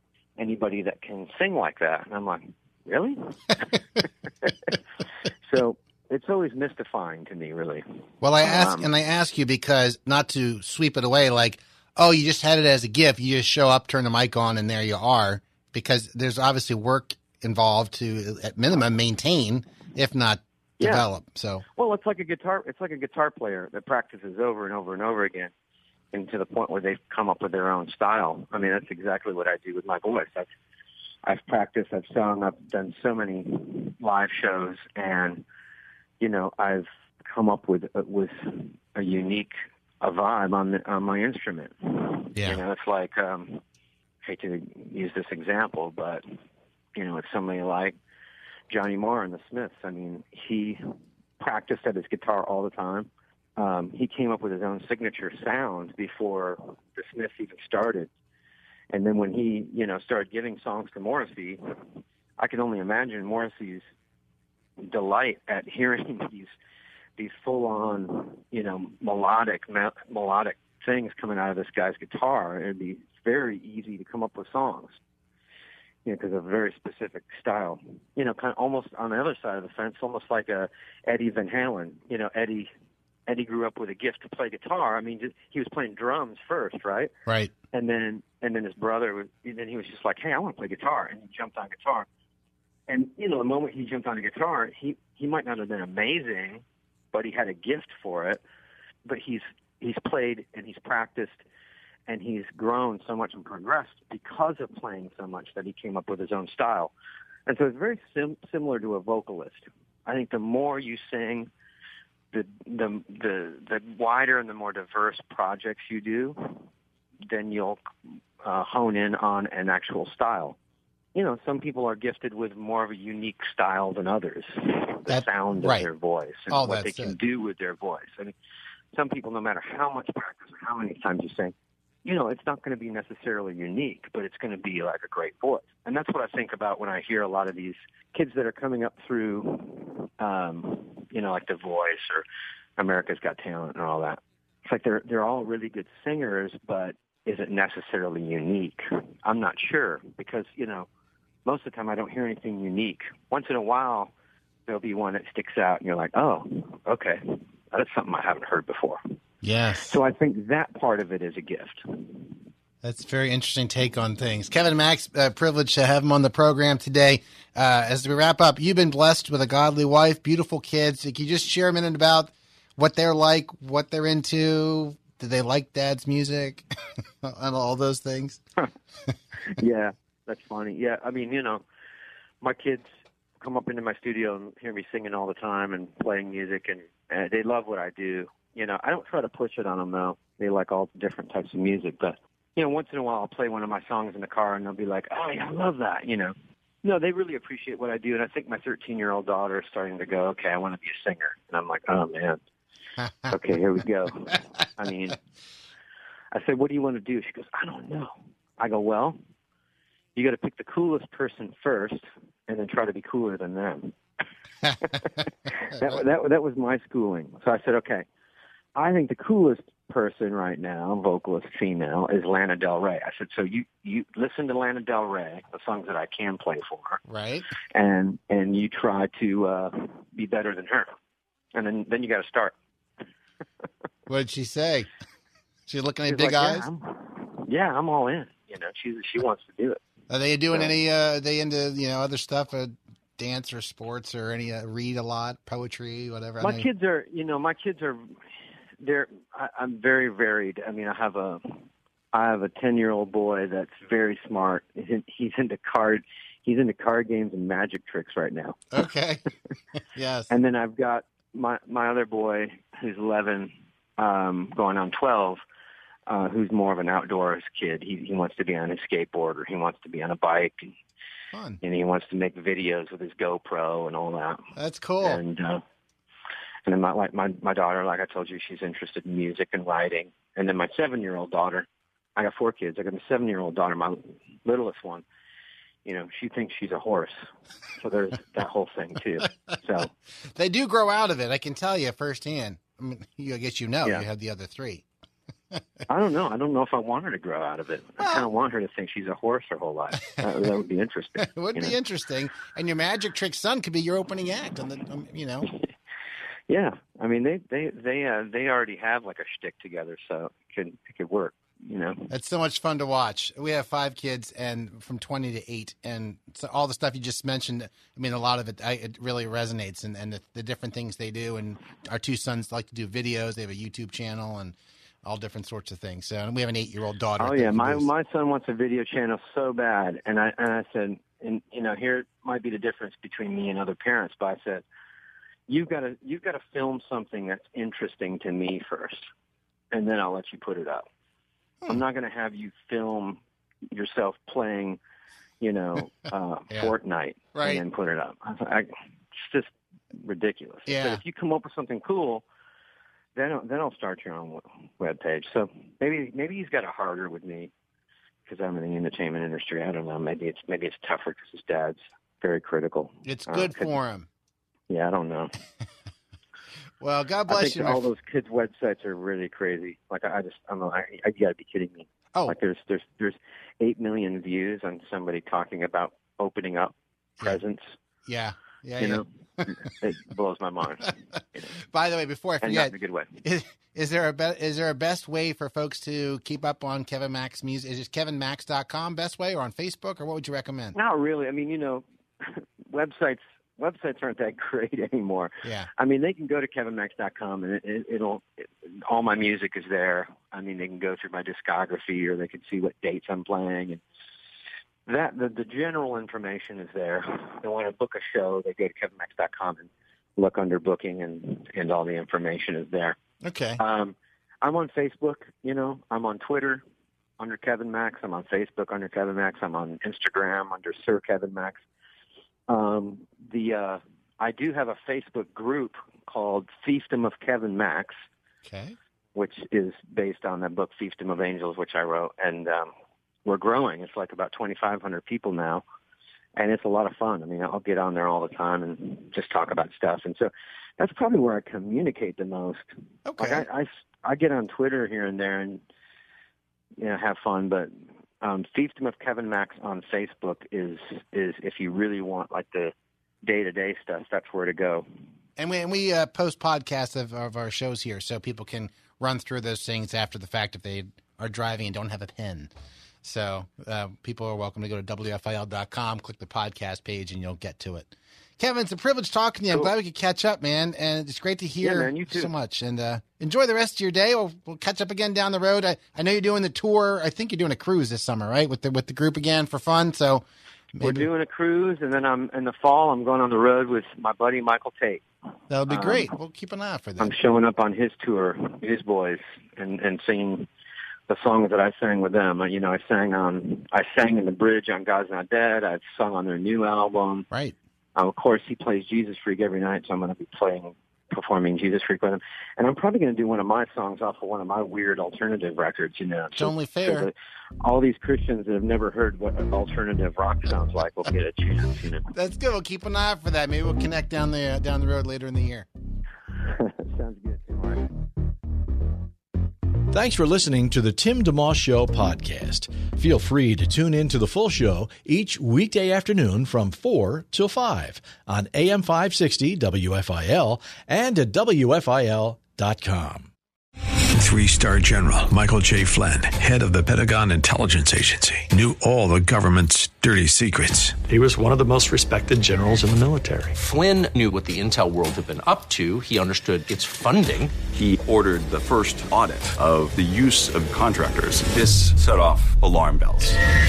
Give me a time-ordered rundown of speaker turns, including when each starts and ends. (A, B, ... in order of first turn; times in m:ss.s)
0:00.4-0:07.8 A
0:08.2-0:21.6 B
0:08.4-0:08.9 A
0:20.8-0:21.1 A
0:21.8-0:25.5 A
0:26.1-0:30.5 A
0:31.3-0:35.4 A
0:36.2-0:43.6 A
0:42.4-0:42.6 B
0:44.2-0:46.2 A
0:47.0-0:48.0 A
0:48.7-0:58.1 A
0:58.9-1:01.6 A
1:02.4-1:03.9 A
1:04.8-1:06.6 A
1:07.2-1:15.0 A
1:16.0-1:22.7 A
1:23.3-1:27.1 A
1:27.3-1:27.5 B
1:27.7-1:32.1 A
1:32.9-1:38.4 A
1:39.0-1:41.4 A
1:42.1-1:46.9 A
1:47.5-1:51.5 A
1:52.3-1:56.6 A
1:57.3-1:57.8 A
1:58.4-2:00.6 A
2:01.2-2:08.3 A
2:05.1-2:05.9 B
2:06.5-2:07.2 B
2:08.9-2:11.5 A
2:12.0-2:22.2 A
2:22.8-2:30.9 A
2:31.4-2:34.1 A
2:34.7-2:39.0 A
2:39.4-2:40.0 B
2:39.8-2:42.3 A
2:42.8-2:56.6 B
2:57.2-2:58.4 B
2:59.4-3:01.6 A
3:02.4-3:02.9 A
3:03.4-3:22.4 A
3:23.0-3:23.4 B
3:23.3-3:25.2 A
3:26.3-3:29.2 A
3:30.2-3:34.0 A
3:34.8-3:38.0 A
3:38.8-3:47.0 A
3:47.1-3:47.5 B
3:47.7-3:50.9 A
3:51.6-3:52.5 A
3:54.1-3:54.9 B
3:55.7-3:56.7 B
3:56.1-3:59.8 A
4:00.1-4:06.7 B
4:06.4-4:08.0 A
4:08.8-4:11.6 A
4:12.1-4:18.6 A
4:18.7-4:19.3 B
4:19.9-4:20.3 B
4:20.3-4:25.4 A
4:26.1-4:30.7 A
4:31.3-4:31.6 B
4:31.6-4:34.4 A
4:34.6-4:35.2 B
4:35.0-4:35.6 A
4:36.7-4:45.0 A
4:45.8-4:49.9 A
4:50.3-4:54.8 B
4:55.9-5:01.8 A
4:58.0-4:58.3 B
5:01.2-5:05.5 B
5:06.5-5:12.0 A
5:12.1-5:27.9 B
5:27.2-5:34.6 A
5:35.5-5:39.1 A
5:39.7-5:40.9 A
5:41.7-5:43.2 A
5:43.7-5:44.8 A
5:45.4-5:52.2 A
5:47.3-5:47.6 B
5:50.7-5:51.0 B
5:53.2-5:57.5 A
5:58.3-6:03.7 A
6:03.0-6:04.1 B
6:04.7-6:05.3 A
6:06.8-6:07.8 B
6:07.3-6:17.8 A
6:18.1-6:19.5 B
6:18.8-6:21.6 A
6:21.6-6:30.8 B
6:22.4-6:23.1 A
6:30.7-6:43.8 A
6:35.4-6:35.7 B
6:44.9-6:53.0 A
6:53.2-6:53.6 B
6:53.6-6:56.6 A
6:57.2-7:01.6 A
7:02.5-7:08.0 A
7:08.4-7:08.8 B
7:09.2-7:12.7 A
7:13.3-7:15.6 A
7:16.4-7:22.6 A
7:23.1-7:23.5 B
7:23.2-7:25.6 A
7:26.8-7:27.7 A
7:28.2-7:32.7 A
7:33.2-7:34.9 A
7:35.4-7:42.5 B
7:43.0-8:01.1 B
7:51.6-7:52.3 A
8:00.8-8:05.0 A
8:05.5-8:07.2 B
8:05.7-8:06.1 A
8:07.0-8:10.5 A
8:11.1-8:17.3 A
8:17.3-8:17.6 B
8:18.0-8:32.1 A
8:26.4-8:27.1 B
8:32.1-8:35.7 B
8:36.5-8:37.9 A
8:39.9-8:53.3 C
8:54.1-9:01.0 D
9:01.1-9:03.5 E
9:03.6-9:07.6 F
9:07.6-9:13.4 G